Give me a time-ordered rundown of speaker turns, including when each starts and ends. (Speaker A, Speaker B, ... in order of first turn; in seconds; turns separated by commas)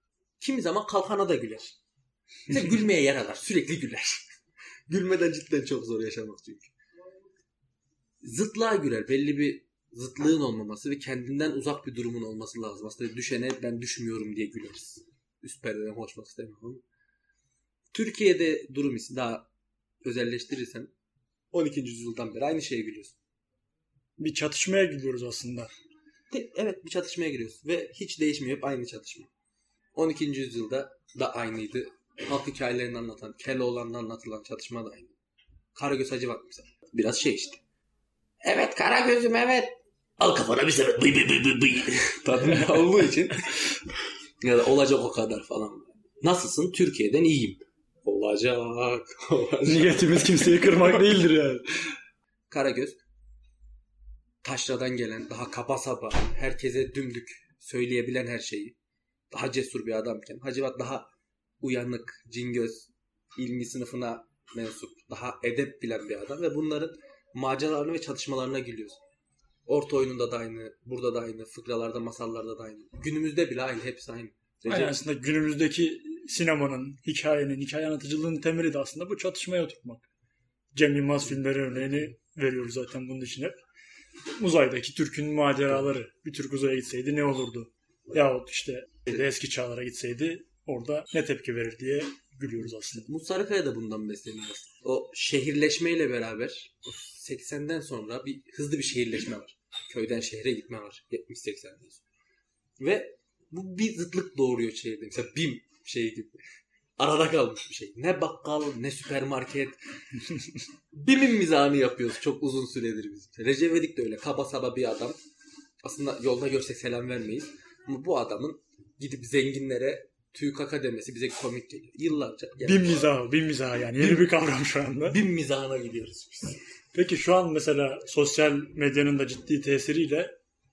Speaker A: 0.4-1.8, Speaker A: 2.5-4.3, Speaker A: 4.9-6.7, Speaker A: 8.2-16.8, Speaker A: 17.9-19.5, Speaker A: 20.0-20.9, Speaker A: 21.5-23.2, Speaker B: 24.2-25.7, Speaker A: 26.3-29.3, Speaker A: 29.9-35.2, Speaker A: 35.7-37.6, Speaker A: 38.4-43.7, Speaker A: 44.4-51.0, Speaker B: 49.6-51.9, Speaker A: 52.5-53.0, Speaker A: 54.4-58.8, Speaker A: 59.3-61.1, Speaker A: 61.6-69.0, Speaker A: 69.7-75.0, Speaker B: 74.7-80.1, Speaker B: 80.7-83.6, Speaker B: 84.4-93.1, Speaker A: 92.6-102.0, Speaker A: 102.8-106.4, Speaker A: 107.0-109.8, Speaker A: 110.9-115.2, Speaker A: 115.8-123.0, Speaker B: 122.6-125.2, Speaker A: 124.0-124.3, Speaker A: 125.1-126.6, Speaker B: 126.9-130.3